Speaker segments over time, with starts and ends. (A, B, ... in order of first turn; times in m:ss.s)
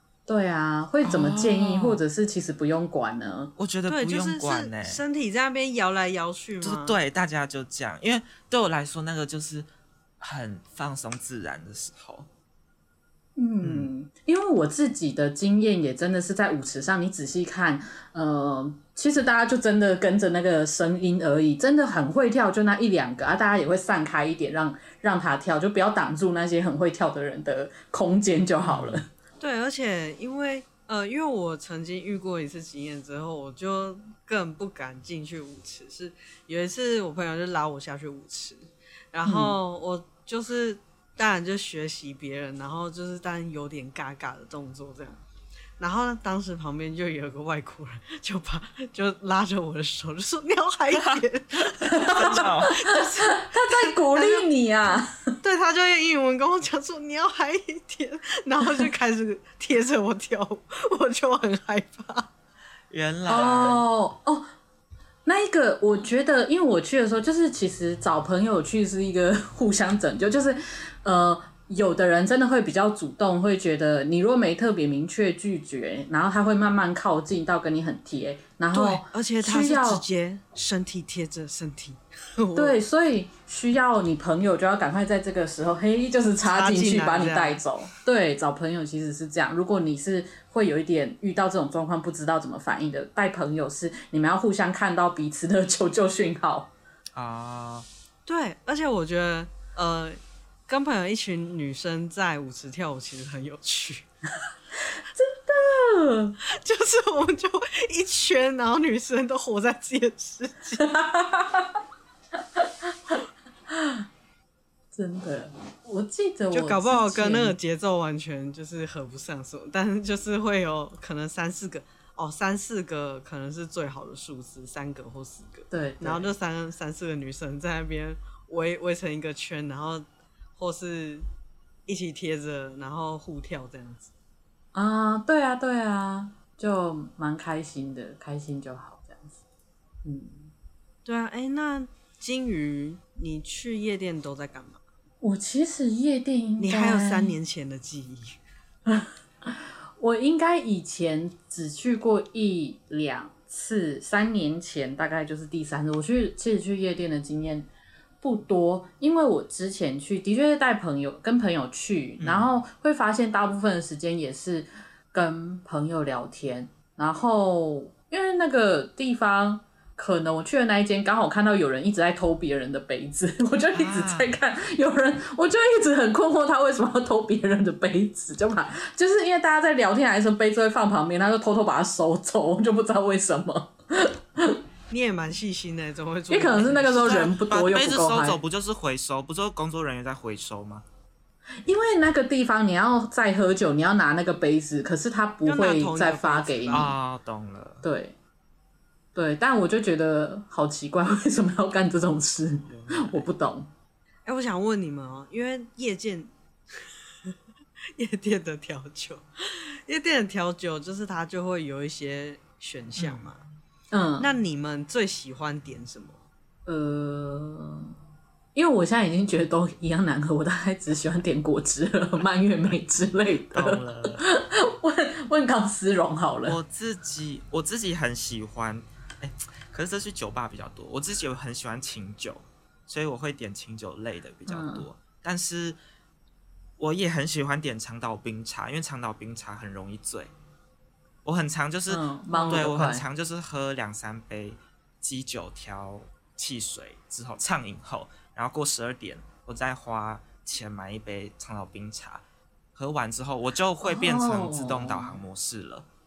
0:00.3-0:03.5 A
0:01.0-0:02.0 B
0:03.6-0:05.0 B
0:03.9-0:07.0 C
0:06.6-0:09.7 B
0:10.2-0:12.3 B
0:13.4-0:29.1 A
0:13.6-0:13.9 B
0:28.6-0:29.0 B
0:29.4-0:45.2 C
0:39.2-0:39.6 A
0:45.8-0:54.5 C
0:50.9-0:52.8 B
0:51.8-0:55.3 A
0:55.4-1:02.3 C
1:02.9-1:03.8 B
1:03.3-1:04.5 A
1:05.2-1:20.0 A
1:18.7-1:22.8 C
1:22.5-1:36.7 A
1:26.5-1:27.6 C
1:37.1-1:37.9 B
1:38.2-1:44.0 C
1:45.1-1:46.4 A
1:46.5-1:50.9 C
1:50.8-1:51.7 A
1:52.6-1:53.1 A
1:53.7-1:54.0 A
1:54.9-1:57.6 A
1:56.5-2:11.3 C
2:05.7-2:06.3 A
2:11.9-2:14.1 C
2:14.7-2:19.4 A
2:20.0-2:20.5 A
2:21.0-2:24.8 C
2:25.2-2:27.3 A
2:26.6-2:28.4 C
2:28.9-2:37.7 A
2:38.2-3:04.6 A
2:42.2-2:42.5 B
2:53.7-2:54.4 B
3:04.9-3:07.2 C
3:06.3-3:08.4 A
3:07.0-3:10.8 B
3:11.6-3:16.9 A
3:15.4-3:16.9 C
3:16.7-3:17.8 B
3:17.8-3:18.1 A
3:19.1-3:23.7 A
3:22.7-3:23.3 B
3:24.2-3:27.3 C
3:28.0-3:33.4 C
3:33.0-3:33.3 B
3:33.9-3:34.3 A
3:34.2-3:36.2 C
3:36.6-3:37.9 A
3:38.5-3:46.6 A
3:43.5-3:44.2 B
3:46.4-3:55.8 B
3:54.5-3:54.9 A
3:56.8-4:00.3 B
4:01.2-4:12.2 B
4:01.9-4:03.0 A
4:12.7-4:15.9 B
4:13.8-4:15.2 A